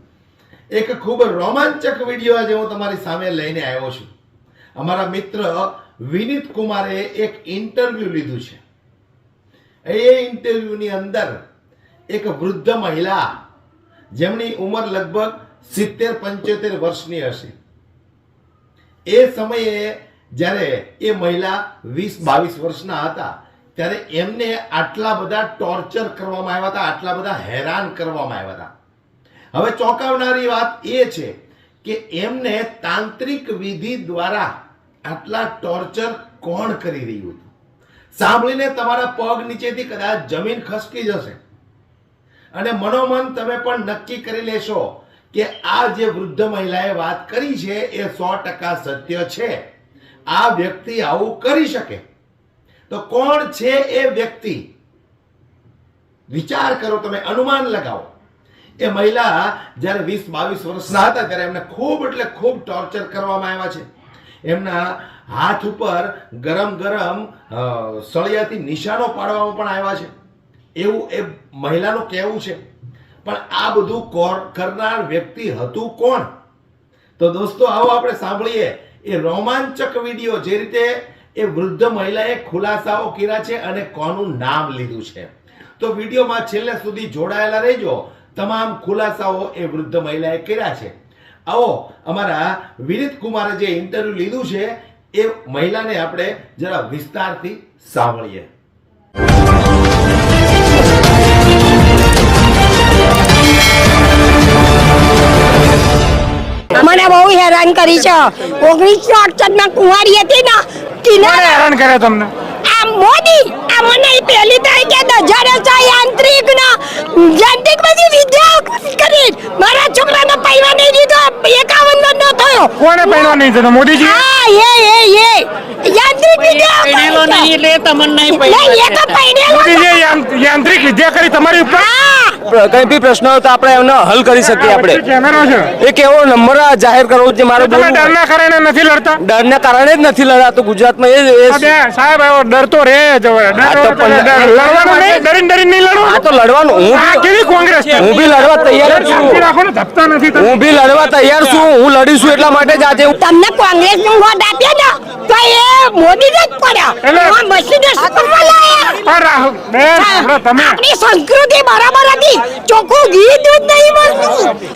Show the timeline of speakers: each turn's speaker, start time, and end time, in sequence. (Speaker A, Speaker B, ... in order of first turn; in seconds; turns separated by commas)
Speaker A: 0.7-4.1, Speaker A: 4.8-8.6, Speaker A: 9.9-11.4, Speaker A: 12.1-13.3, Speaker A: 14.2-17.6, Speaker A: 19.1-28.7, Speaker A: 29.5-34.5, Speaker A: 35.1-37.5, Speaker A: 38.1-41.4, Speaker A: 42.5-49.6, Speaker A: 50.3-52.0, Speaker A: 52.9-54.7, Speaker A: 56.3-58.1, Speaker A: 58.8-63.9, Speaker A: 64.5-70.1, Speaker A: 70.8-72.6, Speaker A: 73.2-76.3, Speaker A: 77.2-91.0, Speaker A: 91.5-98.5, Speaker B: 106.7-111.7, Speaker C: 111.2-112.3, Speaker B: 112.7-123.4, Speaker C: 122.8-124.2, Speaker B: 124.0-127.5, Speaker D: 126.5-129.2, Speaker B: 128.3-130.0, Speaker C: 129.5-131.8, Speaker B: 131.7-132.4, Speaker E: 132.5-135.0, Speaker C: 134.6-135.7, Speaker E: 135.8-138.1, Speaker C: 137.6-139.2, Speaker E: 139.2-141.7, Speaker C: 141.5-146.2, Speaker E: 143.6-145.2, Speaker E: 146.1-147.2, Speaker C: 146.9-148.1, Speaker E: 148.0-149.5, Speaker C: 148.8-150.5, Speaker E: 150.4-153.2, Speaker B: 153.2-159.0, Speaker C: 157.0-157.3, Speaker C: 159.0-160.8, Speaker B: 159.9-164.5